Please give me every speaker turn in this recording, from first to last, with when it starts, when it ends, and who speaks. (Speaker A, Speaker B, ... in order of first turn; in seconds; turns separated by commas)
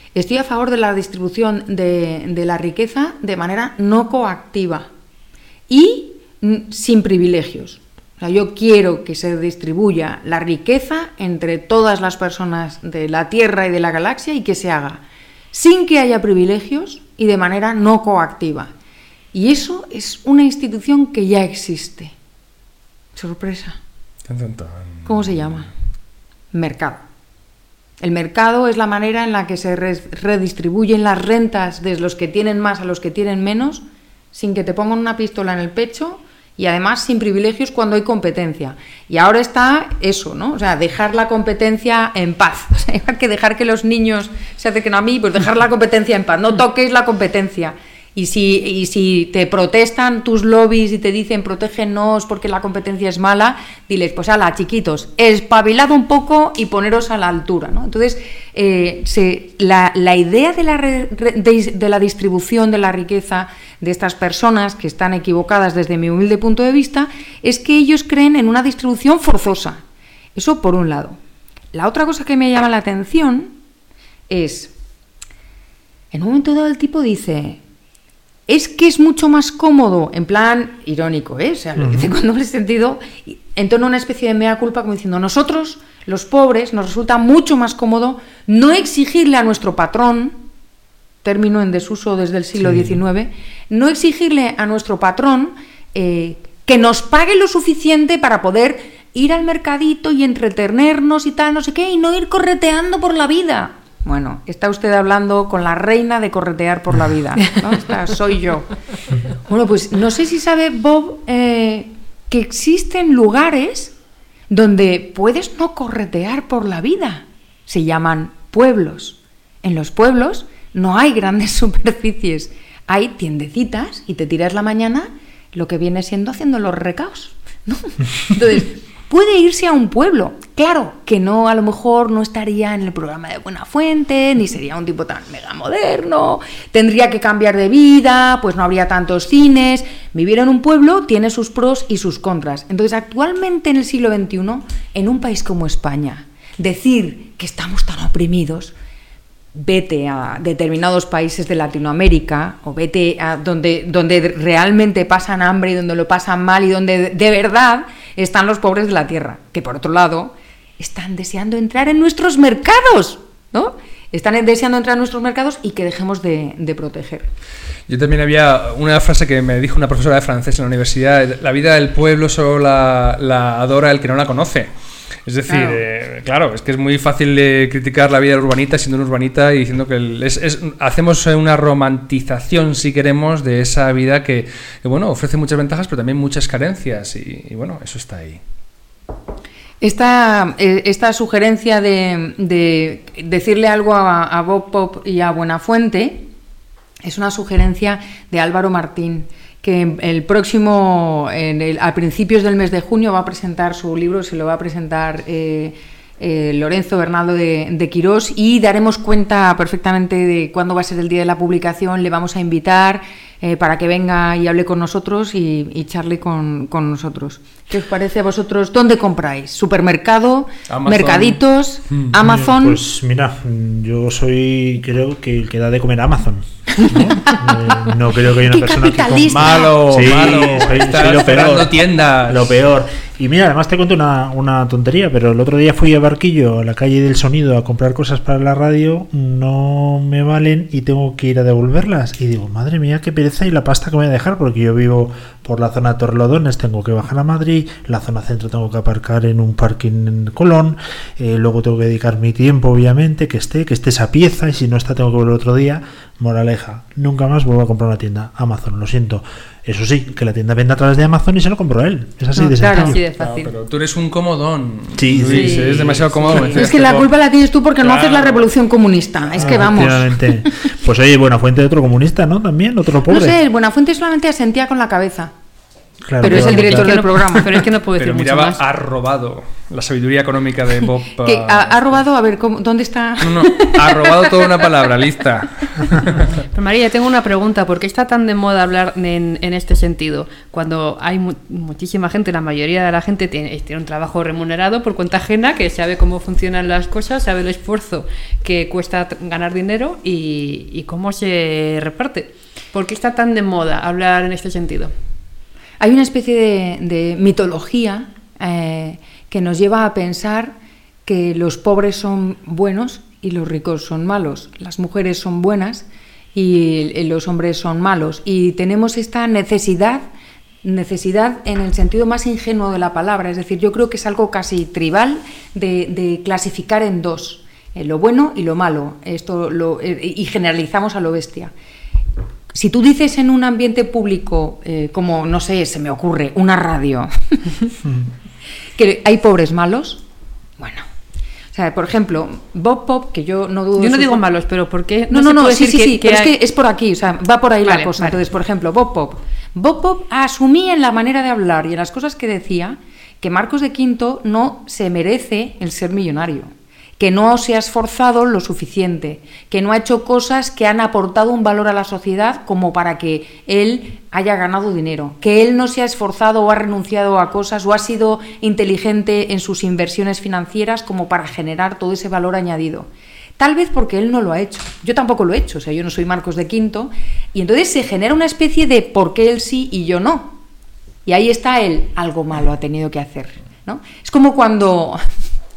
Speaker A: 0.1-4.9, Speaker A: 5.7-15.0, Speaker A: 15.5-18.7, Speaker A: 19.3-22.1, Speaker A: 23.2-23.8, Speaker B: 24.3-25.4, Speaker A: 25.1-25.7, Speaker A: 26.5-27.0, Speaker A: 28.0-33.8, Speaker A: 34.3-69.8, Speaker A: 70.3-71.2, Speaker A: 71.7-73.6, Speaker A: 74.3-74.7, Speaker A: 76.1-77.6, Speaker A: 78.5-90.4, Speaker C: 81.8-82.1, Speaker A: 91.2-108.7, Speaker A: 109.5-113.9, Speaker A: 114.5-148.7, Speaker A: 149.5-167.3, Speaker B: 167.9-174.7, Speaker B: 175.3-188.4, Speaker A: 175.5-175.8, Speaker A: 189.8-196.3, Speaker A: 197.0-222.8, Speaker B: 220.7-222.1, Speaker C: 222.2-263.0, Speaker A: 228.4-230.6, Speaker B: 229.3-232.6, Speaker A: 262.4-262.9, Speaker D: 262.6-263.5, Speaker B: 263.1-267.1, Speaker C: 265.0-266.3, Speaker D: 265.3-266.8, Speaker A: 266.5-270.4, Speaker B: 267.8-268.5, Speaker C: 269.4-273.4, Speaker A: 273.1-275.3, Speaker C: 276.1-277.0, Speaker A: 276.2-277.5, Speaker D: 276.3-278.6, Speaker B: 278.0-282.0, Speaker A: 281.2-284.4, Speaker B: 283.2-286.3, Speaker D: 286.5-304.9, Speaker A: 305.8-310.6, Speaker A: 311.1-320.1, Speaker A: 320.6-331.5, Speaker A: 332.5-337.5, Speaker A: 338.8-340.0, Speaker A: 340.6-340.9, Speaker A: 341.5-344.2, Speaker D: 343.8-346.4, Speaker A: 345.1-380.4, Speaker D: 347.6-348.2, Speaker A: 381.1-385.0